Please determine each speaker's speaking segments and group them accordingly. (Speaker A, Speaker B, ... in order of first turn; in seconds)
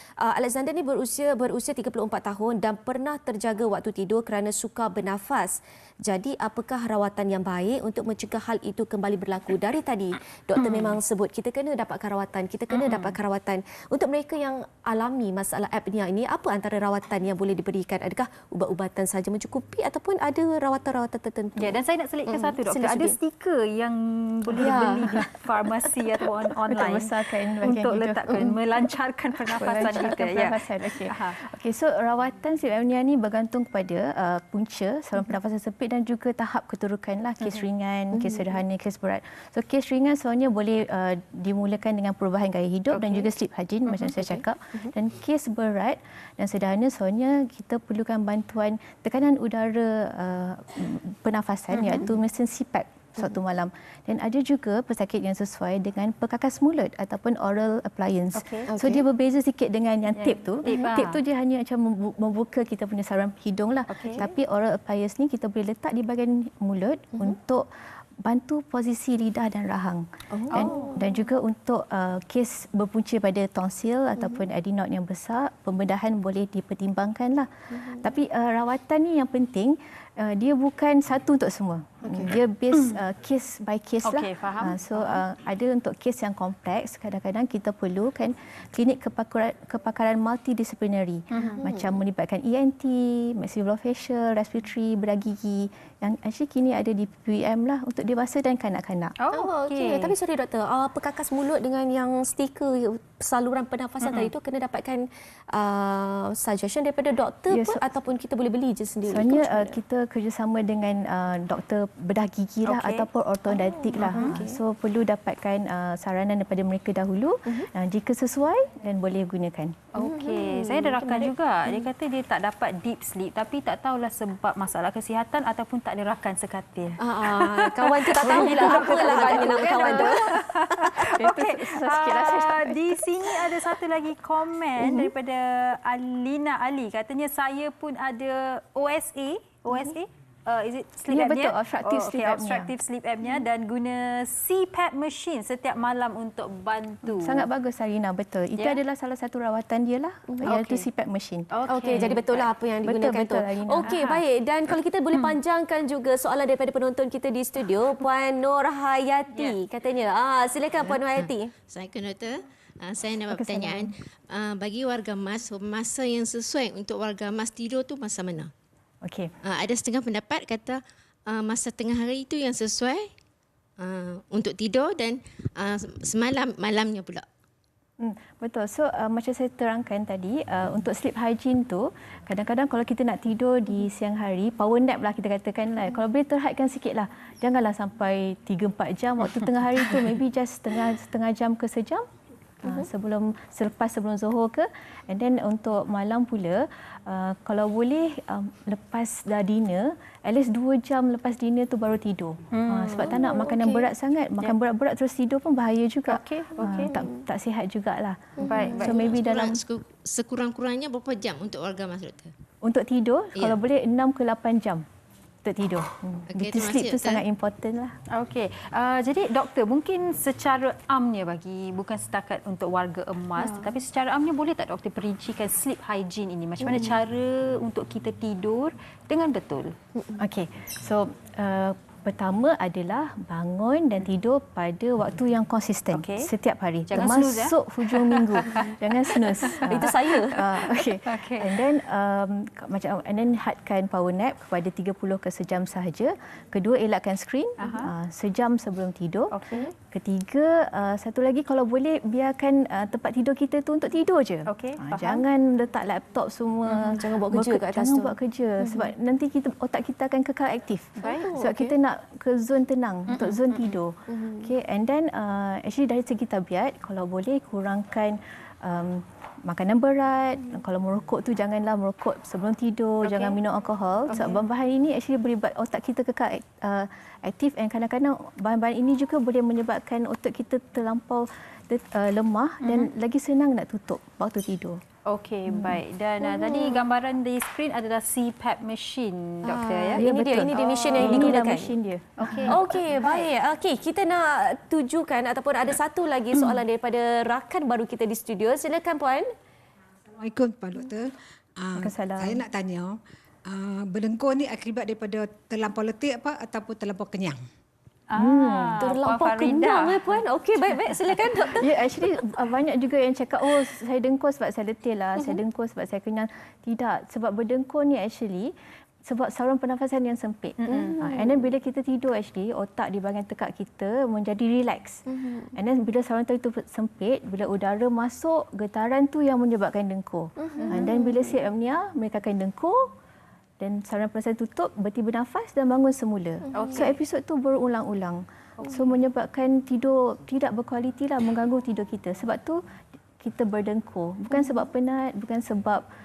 Speaker A: 0.2-21.8, 22.3-23.2, 24.6-25.2, 38.1-38.4, 44.2-44.9, 51.8-52.1, 58.7-59.0, 70.3-71.0, 91.6-91.9, 99.3-109.8, 113.5-114.6, 120.0-121.8, 127.0-130.4, 151.7-161.5, 208.4-208.8, 223.4-223.7, 226.6-226.9, 239.6-240.4, 256.7-258.1, 261.0-261.7, 264.1-264.5, 286.3-286.8, 289.4-291.7, 292.5-299.3, 308.8-311.8, 320.7-321.4, 325.1-325.5, 330.4-331.4
Speaker B: 10.6-11.0, 12.7-13.2, 21.6-31.4, 58.4-58.7, 60.2-61.2, 63.9-64.2, 70.5-71.0, 84.0-85.2, 91.3-91.6, 99.2-100.1, 104.0-104.3, 112.7-113.1, 114.0-114.3, 119.9-147.4, 150.4-150.9, 151.5-152.4, 153.8-154.2, 189.3-190.1, 202.5-203.2, 206.1-206.9, 208.4-209.0, 218.1-229.8, 235.9-236.3, 236.9-238.7, 240.6-241.6, 247.6-247.9, 249.3-249.7, 254.5-255.2, 261.0-261.3, 263.1-263.8, 273.1-273.3, 274.1-274.4, 282.6-282.9, 285.1-291.4, 292.2-293.3, 308.1-310.2, 320.6-320.9, 330.6-330.9, 336.5-336.9, 338.6-338.9
Speaker C: 24.6-24.9, 26.6-28.5, 29.6-67.7, 68.2-99.2, 107.5-107.8, 109.1-119.8, 128.2-130.3, 131.0-133.5, 134.8-135.1, 141.1-142.7, 147.1-151.5, 152.8-153.9, 163.3-163.9, 169.0-169.3, 178.0-192.1, 192.6-209.6, 212.6-214.9, 215.4-218.0, 230.2-249.4, 249.9-284.8, 285.5-285.8, 290.0-292.6, 301.8-302.4, 308.2-308.8, 311.6-318.5, 319.0-332.9, 333.6-342.6, 343.2-345.9
Speaker D: 160.8-168.5, 169.4-173.1, 173.8-177.2, 208.8-212.3, 216.3-217.2
Speaker E: 300.2-307.4